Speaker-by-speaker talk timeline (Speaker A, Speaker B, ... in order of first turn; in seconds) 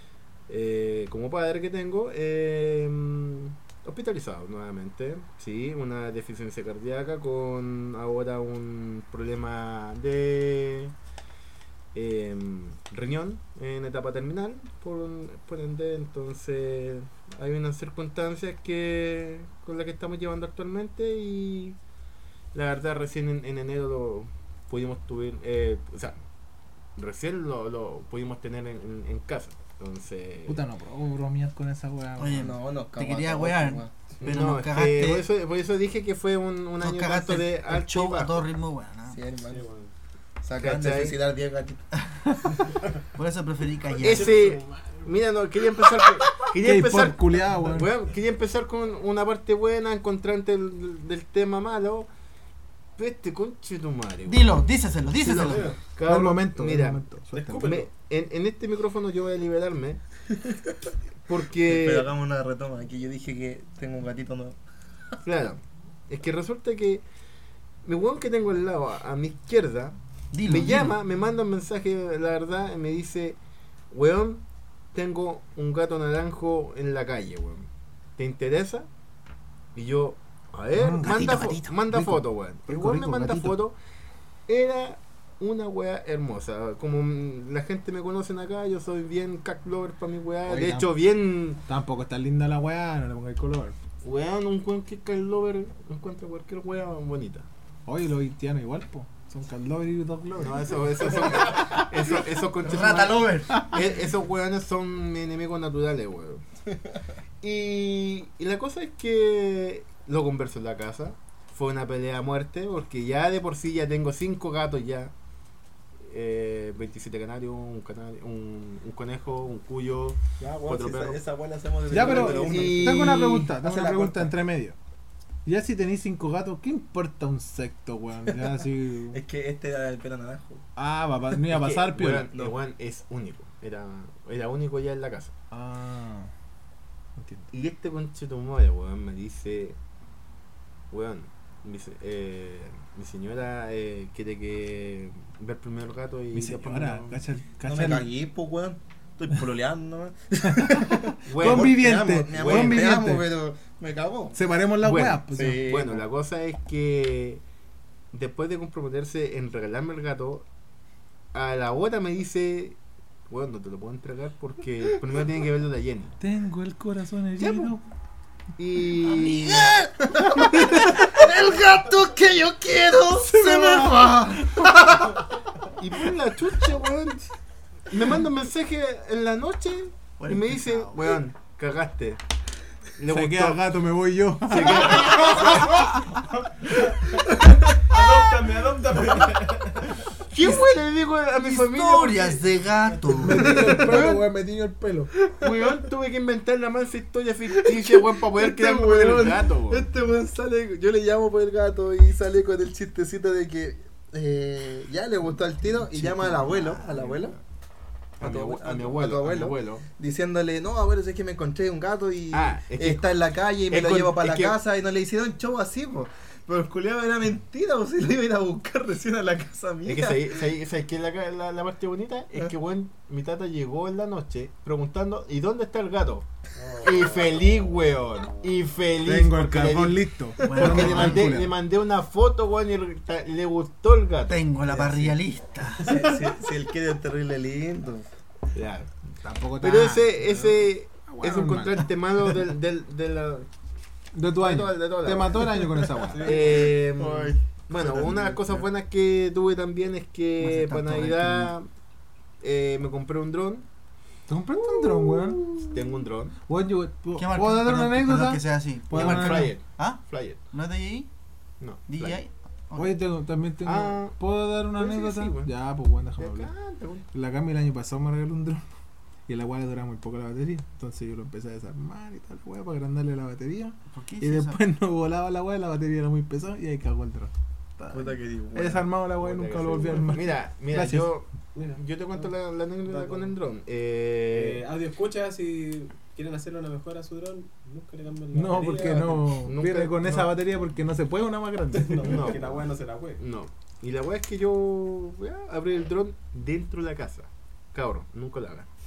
Speaker A: 0.5-10.9, 11.9-21.8, 22.5-26.2, 26.9-30.6, 34.2-38.5, 40.5-41.2, 44.0-52.1, 53.0-54.6, 55.2-57.0, 57.6-60.0, 61.3-62.1, 65.2-67.0, 67.8-73.4, 73.9-78.9, 79.7-83.8, 84.5-91.6, 94.0-97.5, 100.4-106.4, 107.4-115.1, 116.0-121.2, 121.9-124.1, 131.5-135.3, 137.5-139.8, 140.9-147.2, 151.3-153.0, 154.8-157.4, 158.1-160.4, 161.3-162.8, 163.3-166.2, 167.4-167.7, 168.6-170.8, 175.8-177.3, 177.9-182.2, 183.0-183.6, 184.4-185.9, 190.3-192.4, 193.5-194.2, 195.3-199.9, 208.2-209.8, 212.3-213.1, 213.7-214.6, 219.8-226.3, 226.8-235.2, 238.5-238.9, 239.6-243.5, 244.3-245.6, 246.2-251.7, 252.4-253.7, 254.6-256.4, 258.9-260.4, 261.6-262.2, 263.6-264.2, 264.7-265.5, 266.2-267.1, 279.2-284.6, 289.4-290.3, 292.0-292.6, 293.2-298.7
Speaker B: 30.5-32.5, 46.6-47.9, 56.0-57.8, 80.7-83.6, 90.5-90.9, 91.7-93.8, 97.8-101.9, 103.5-103.8, 121.9-124.8, 125.4-129.2, 130.8-132.3, 135.5-136.3, 137.2-137.5, 146.3-148.1, 150.4-153.3, 154.3-155.7, 166.2-167.8, 170.4-175.2, 183.1-186.1, 193.1-195.1, 229.0-231.5, 239.2-241.9, 244.1-246.4, 254.3-255.6, 256.4-259.6, 262.8-266.5, 267.1-268.6, 269.3-281.1, 288.3-292.3
Speaker C: 32.2-35.3, 36.8-39.2, 43.1-44.5, 54.2-55.7, 70.3-70.9, 102.6-103.7, 169.0-173.5, 180.2-181.2, 191.4-193.8, 205.9-206.8, 230.4-231.3, 234.3-236.0, 250.4-251.5, 257.1-261.1, 261.9-263.0, 273.9-274.6
Speaker D: 32.3-33.9, 39.1-39.6, 40.4-41.8, 61.6-64.6, 120.4-124.2, 129.1-130.6, 147.6-154.4, 155.3-156.0, 197.6-207.4, 208.2-220.4, 230.4-230.9, 235.8-238.1, 246.2-248.6, 277.9-278.9
Speaker E: 39.5-39.9, 44.1-45.1, 55.3-55.8, 57.3-57.9, 186.2-187.3, 187.9-190.0, 226.5-227.5, 246.0-246.7, 281.5-282.3, 282.8-283.3, 284.3-289.3, 291.7-293.2